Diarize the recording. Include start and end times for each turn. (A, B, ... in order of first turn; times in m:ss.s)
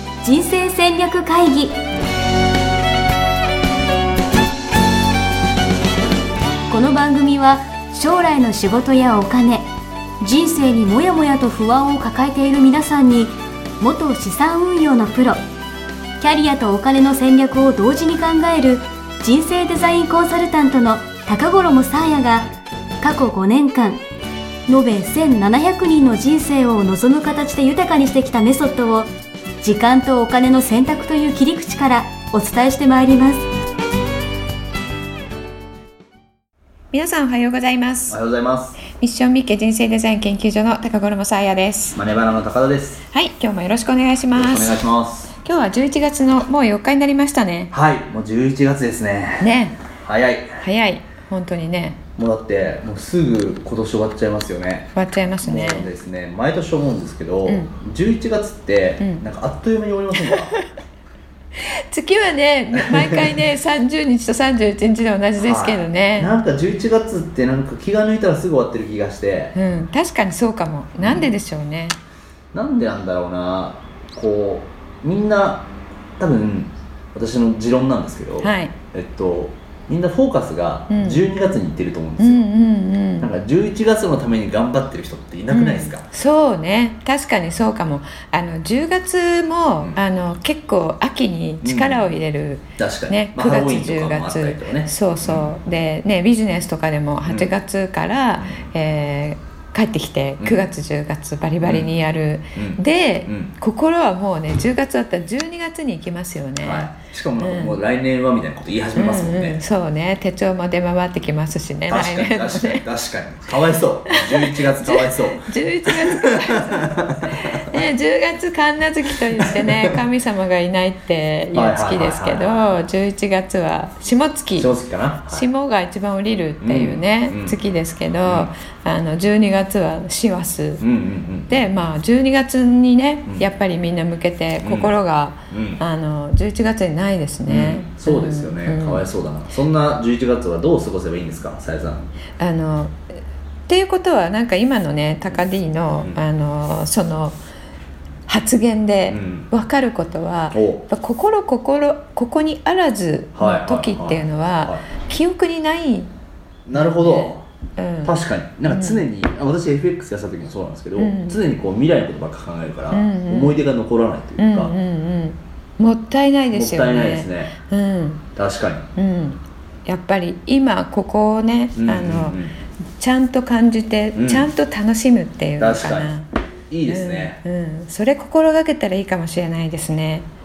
0:00.2-0:01.8 A
0:06.7-0:09.7 A
0:10.2-0:15.4 A
0:16.2-0:22.5 A
0:23.0-0:24.0 A
0:24.7-0:29.1 A
0:29.6-0:33.4 A
0:36.9-0:38.2 B
0:38.1-0:38.8 C
0:38.8-0:42.0 B
0:41.9-0:43.0 C
0:43.1-0:44.8 B
0:44.3-0:45.3 C
0:45.3-0:47.7 B
0:47.7-0:50.6 C
0:49.4-0:49.8 B
0:50.6-0:52.0 B
0:52.2-1:00.5 C
0:54.9-0:55.9 B
0:57.4-0:57.7 B
0:59.0-0:59.2 B
1:00.2-1:00.7 B
1:01.6-1:06.3 B
1:02.7-1:03.4 C
1:05.4-1:09.6 C
1:09.5-1:12.0 B
1:11.0-1:11.3 C
1:12.5-1:22.4 C
1:18.4-1:18.7 B
1:20.9-1:21.3 B
1:22.2-1:23.3 B
1:23.2-1:26.1 C
1:25.5-1:47.8 B
1:31.6-1:32.1 C
1:32.8-1:35.5 C
1:37.2-1:37.5 C
1:41.6-1:41.9 C
1:42.5-1:43.5 C
1:46.6-1:49.6 C
1:48.9-1:52.8 B
1:51.9-1:57.6 C
1:54.1-2:04.7 B
1:59.4-2:00.0 C
2:01.5-2:02.8 C
2:04.6-2:05.4 C
2:05.3-2:10.8 B
2:06.6-2:07.6 C
2:08.2-2:08.5 C
2:10.8-2:11.6 C
2:11.5-2:19.0 B
2:14.6-2:14.9 C
2:15.5-2:15.8 C
2:17.4-2:22.1 C
2:22.4-2:23.0 B
2:23.7-2:27.4 B
2:28.3-2:36.1 B
2:29.1-2:29.5 C
2:30.5-2:30.8 C
2:33.3-2:34.8 C
2:36.6-2:37.4 C
2:36.7-2:38.2 B
2:38.0-2:44.7 C
2:38.7-2:39.1 B
2:41.0-2:41.4 B
2:42.9-2:43.6 B
2:44.4-2:48.2 B
2:46.5-2:47.5 C
2:48.4-2:48.8 C
2:49.0-2:52.4 B
2:51.8-2:52.5 C
2:53.0-2:56.3 B
2:54.2-2:54.5 C
2:55.6-2:56.1 C
2:56.7-2:57.4 C
2:56.9-3:00.3 B